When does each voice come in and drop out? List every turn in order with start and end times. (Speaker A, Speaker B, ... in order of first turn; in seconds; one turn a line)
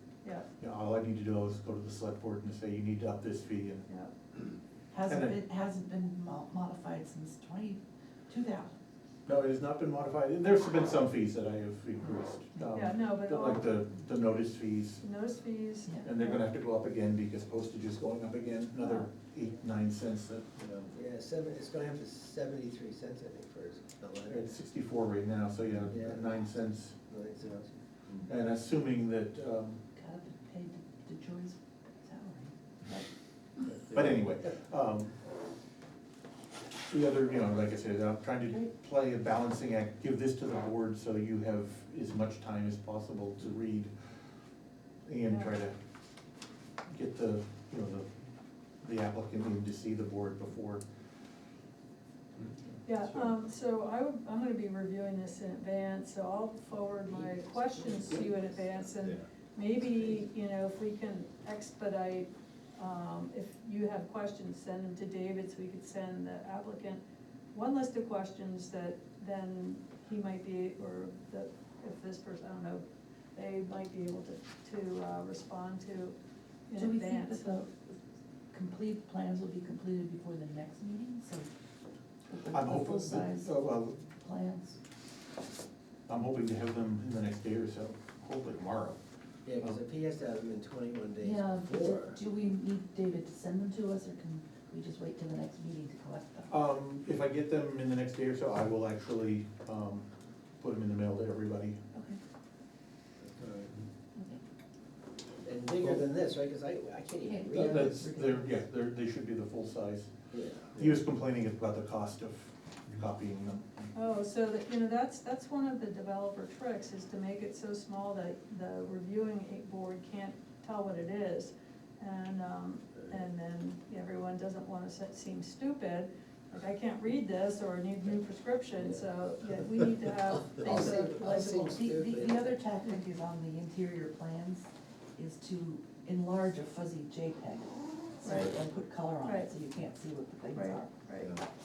Speaker A: 0.6-3.9
Speaker B: 4.9-8.8
Speaker A: 5.1-5.4
Speaker A: 9.2-15.0
Speaker C: 12.7-13.8
Speaker C: 15.0-16.4
Speaker A: 16.0-20.9
Speaker D: 20.9-24.6
Speaker A: 24.3-27.0
Speaker D: 25.9-26.4
Speaker D: 27.1-28.2
Speaker A: 28.2-29.8
Speaker B: 29.9-33.0
Speaker A: 33.9-35.1
Speaker A: 36.9-43.9
Speaker A: 45.0-45.7
Speaker C: 45.3-45.5
Speaker A: 46.9-48.1
Speaker A: 48.8-50.8
Speaker C: 52.8-67.0
Speaker D: 57.8-58.2
Speaker C: 67.5-76.1
Speaker C: 76.7-77.6
Speaker B: 76.7-78.0
Speaker B: 78.5-81.5
Speaker B: 82.3-83.6
Speaker A: 82.5-84.0
Speaker B: 84.2-84.8
Speaker A: 86.1-89.0
Speaker D: 89.4-92.2
Speaker B: 91.2-96.5
Speaker A: 96.5-100.0
Speaker A: 100.6-101.8
Speaker B: 101.9-102.2
Speaker D: 103.4-103.7
Speaker D: 105.4-108.0
Speaker B: 107.2-108.5
Speaker A: 107.6-110.1
Speaker D: 110.3-110.8
Speaker A: 110.7-113.9
Speaker C: 113.9-131.6
Speaker D: 130.4-132.6
Speaker B: 130.7-141.0
Speaker C: 138.2-138.5
Speaker C: 139.2-139.5
Speaker C: 140.5-141.3